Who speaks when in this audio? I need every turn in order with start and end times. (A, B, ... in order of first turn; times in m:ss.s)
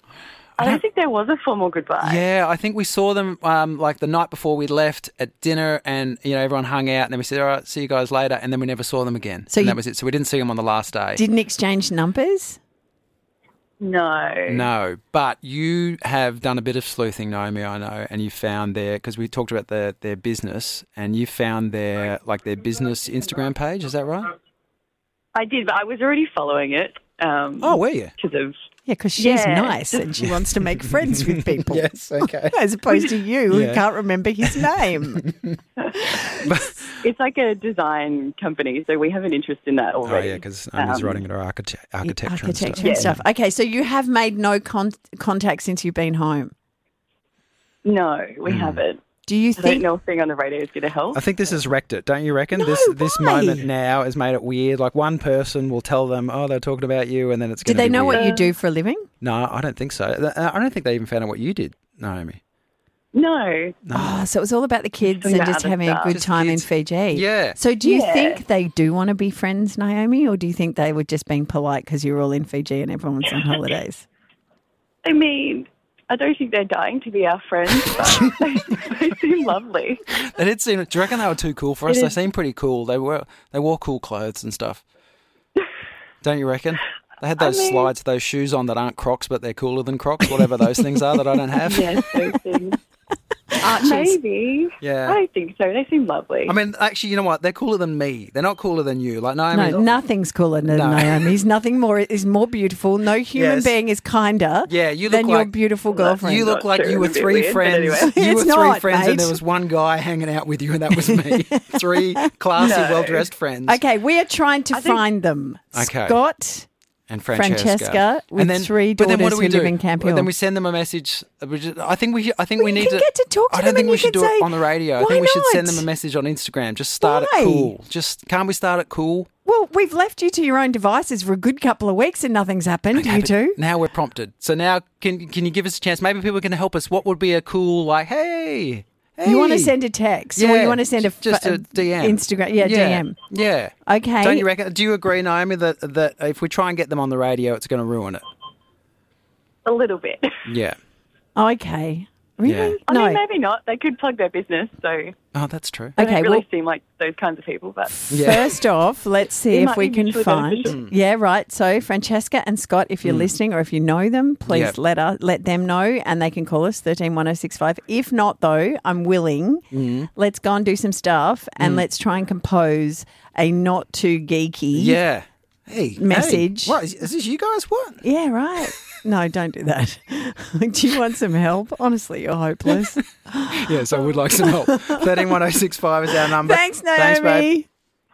0:00.6-0:02.2 A
0:02.0-0:11.2 B
0:09.5-0:09.8 C
0:11.2-0:12.6 C
0:13.8-0:14.7 A
0:14.5-0:24.3 B
0:25.3-0:28.5 A
0:27.6-0:28.1 B
0:28.8-0:35.2 C
0:29.2-0:30.1 A
0:30.2-0:32.6 B
0:33.5-0:33.8 B
0:34.4-0:35.6 B
0:35.8-0:36.4 A
0:36.3-0:37.0 B
0:37.0-0:41.2 A
0:40.0-0:43.2 B
0:42.0-0:46.5 C
0:42.8-0:43.2 A
0:47.8-0:49.0 A
0:48.4-0:48.8 B
0:49.2-0:49.8 C
0:49.6-0:51.4 A
0:51.1-0:58.3 B
0:52.5-0:53.7 C
0:57.6-0:59.0 C
0:58.1-0:58.5 A
0:59.2-1:02.4 B
1:03.1-1:03.8 A
1:03.9-1:04.2 B
1:03.9-1:14.0 C
1:05.0-1:06.1 A
1:06.1-1:07.6 B
1:07.8-1:08.4 A
1:15.0-1:20.0 A
1:20.1-1:24.8 B
1:21.9-1:22.1 A
1:26.2-1:32.0 B
1:27.4-1:27.9 A
1:31.6-1:32.8 A
1:33.5-1:34.2 C
1:33.6-1:36.6 A
1:34.8-1:35.2 B
1:36.5-1:40.0 B
1:39.5-1:46.6 C
1:40.7-1:41.3 B
1:43.3-1:43.8 B
1:44.7-1:45.5 B
1:45.9-1:48.1 A
1:46.2-1:53.8 B
1:47.9-1:49.4 C
1:50.9-1:52.3 C
1:52.6-1:53.3 A
1:53.7-1:56.7 C
1:54.7-1:55.0 A
1:55.7-1:56.2 B
1:57.1-2:09.3 B
1:57.3-2:00.3 C
2:02.6-2:05.8 C
2:07.0-2:07.7 C
2:09.4-2:13.6 C
2:12.9-2:19.7 B
2:19.2-2:23.2 C
2:20.3-2:28.2 B
2:23.8-2:24.5 C
2:29.6-2:30.4 A
2:30.4-2:30.8 B
2:31.4-2:33.2 C
2:32.4-2:32.8 B
2:32.9-2:35.1 A
2:35.3-2:36.0 B
2:36.0-2:36.4 C
2:36.0-2:38.0 A
2:37.8-2:49.6 C
2:38.1-2:38.6 B
2:39.5-2:40.8 A
2:40.6-2:40.9 B
2:43.0-2:43.3 B
2:44.5-2:44.7 B
2:49.7-2:50.1 B
2:50.2-2:55.0 C
2:51.6-2:51.8 B
2:54.7-2:58.0 B
2:56.0-2:56.8 C
2:58.0-3:05.3 C
3:03.5-3:07.5 B
3:06.1-3:07.7 C